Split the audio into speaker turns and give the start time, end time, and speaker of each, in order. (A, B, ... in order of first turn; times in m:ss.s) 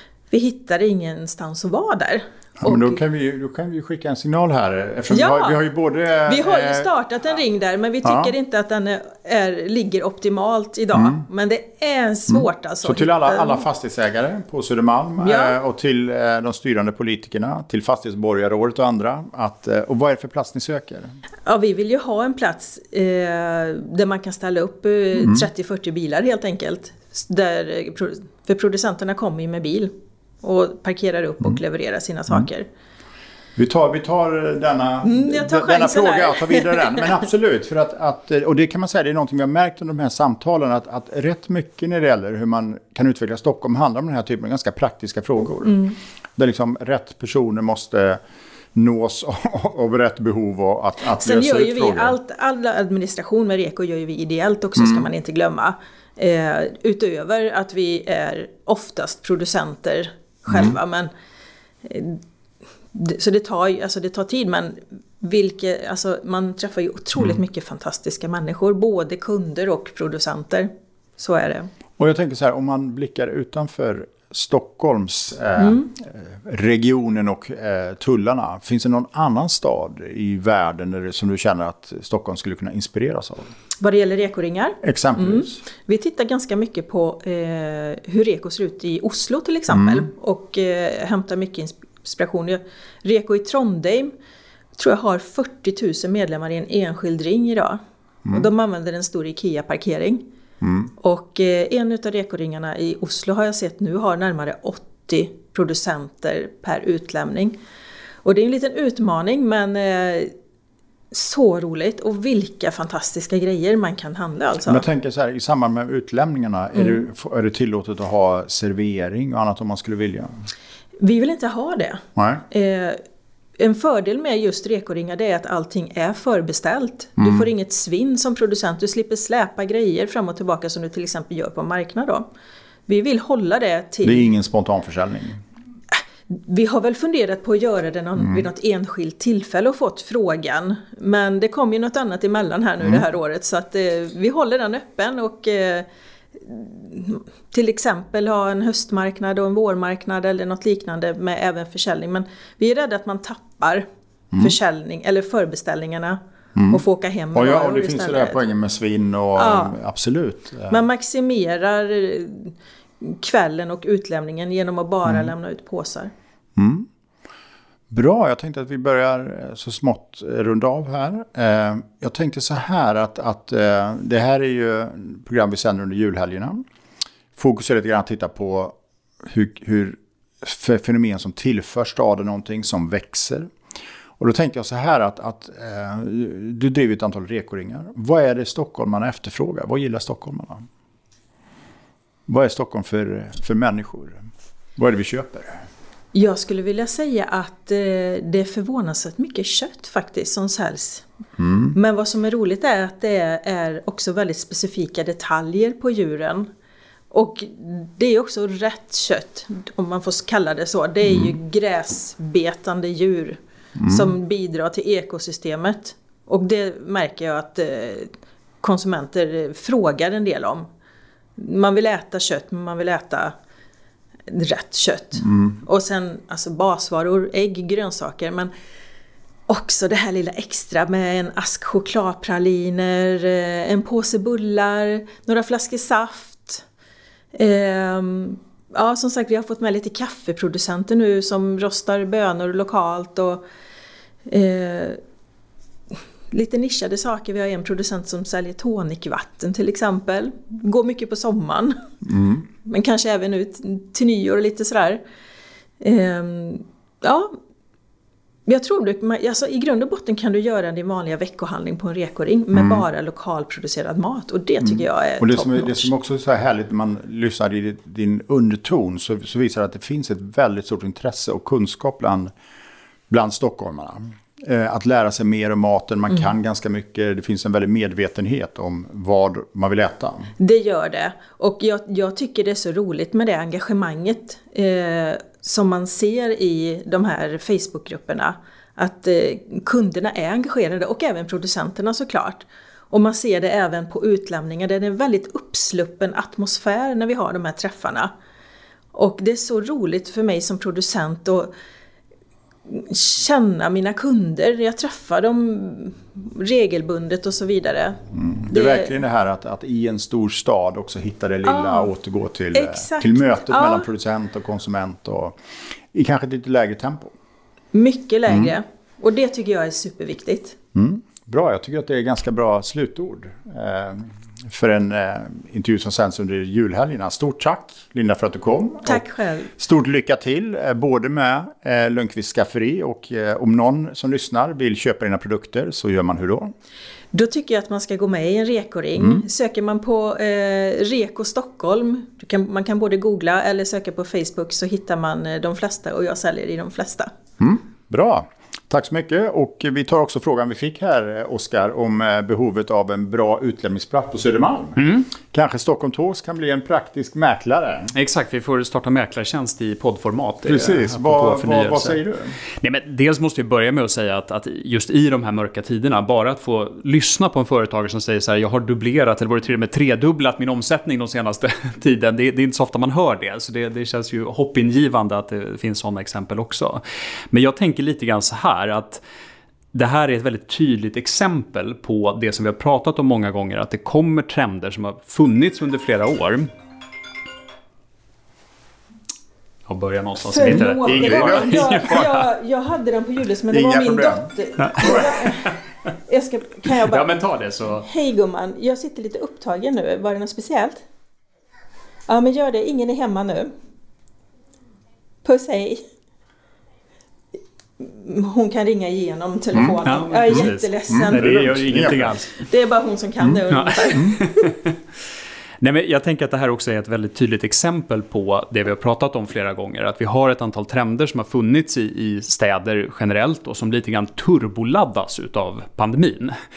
0:00.3-0:03.0 A
0:02.6-0:06.9 B
0:05.1-0:05.6 A
0:06.2-0:13.6 A
0:08.0-0:08.3 B
0:12.3-0:21.1 B
0:15.2-0:15.6 A
0:21.4-0:32.7 A
0:25.2-0:25.4 B
0:33.6-0:45.8 B
0:35.0-0:37.1 A
0:45.6-0:46.0 A
0:46.4-0:48.2 B
0:48.7-0:52.2 B
0:51.1-1:01.1 A
0:54.8-0:55.0 B
1:00.5-1:00.7 B
1:01.8-1:02.2 A
1:02.9-1:11.7 A
1:12.0-1:23.5 B
1:15.6-1:15.9 A
1:23.8-1:34.1 A
1:24.8-1:25.6 B
1:29.7-1:30.1 B
1:34.8-1:40.2 A
1:40.6-1:40.9 B
1:41.0-1:47.6 A
1:48.2-1:50.3 A
1:51.1-1:54.8 A
1:54.7-2:00.3 B
2:01.0-2:03.0 A
2:02.2-2:02.4 B
2:03.6-2:12.2 A
2:07.2-2:07.5 B
2:12.9-2:14.3 A
2:14.0-2:15.4 B
2:16.0-2:25.9 A
2:18.2-2:18.4 B
2:26.4-2:33.8 A
2:34.4-2:36.2 A
2:36.6-2:36.8 B
2:36.7-2:38.4 A
2:37.3-2:40.8 B
2:39.4-2:39.8 A
2:40.7-2:46.1 A
2:45.0-2:45.3 B
2:46.6-2:46.9 B
2:47.9-2:56.6 B
2:57.4-3:03.5 B
3:04.2-3:10.6 B
3:12.3-3:14.2 B
3:14.8-3:15.6 B
3:16.1-3:21.1 A
3:21.4-3:21.7 B
3:21.7-3:26.5 A
3:27.1-3:40.7 A
3:31.1-3:31.3 B
3:33.8-3:34.1 B
3:41.4-3:43.3 A
3:44.3-3:48.5 A
3:49.5-3:56.6 A
3:57.3-4:03.4 A
4:04.3-4:05.0 A
4:06.3-4:11.8 A
4:12.0-4:12.4 B
4:12.6-4:15.0 A
4:15.8-4:17.3 A
4:18.4-4:25.9 A
4:22.6-4:22.8 B
4:24.6-4:32.3 B
4:33.1-4:40.3 B
4:40.4-4:58.1 A
4:58.9-5:01.5 A
5:02.7-5:08.9 A
5:08.1-5:15.4 B
5:11.4-5:11.9 A
5:12.5-5:13.9 A
5:15.9-5:17.1 B
5:17.7-5:20.6 A
5:18.3-5:18.5 B
5:20.7-5:29.0 B
5:28.8-5:29.5 A
5:29.6-5:36.5 B
5:37.1-5:47.1 A
5:47.4-5:57.9 B
5:54.8-5:55.1 C
5:57.9-6:02.0 C
6:00.4-6:02.4 B
6:02.6-6:19.0 C
6:19.7-6:26.5 C
6:29.7-6:32.3 C
6:30.2-6:37.1 A
6:30.8-6:31.6 B
6:33.5-6:35.1 B
6:36.7-6:37.8 C
6:37.8-6:40.8 A
6:42.1-6:43.5 A
6:45.2-6:45.8 A
6:47.8-6:51.5 A
6:49.8-6:52.4 C
6:50.3-6:52.2 B
6:52.4-6:54.4 A
6:53.5-6:54.8 C
6:55.6-7:06.4 C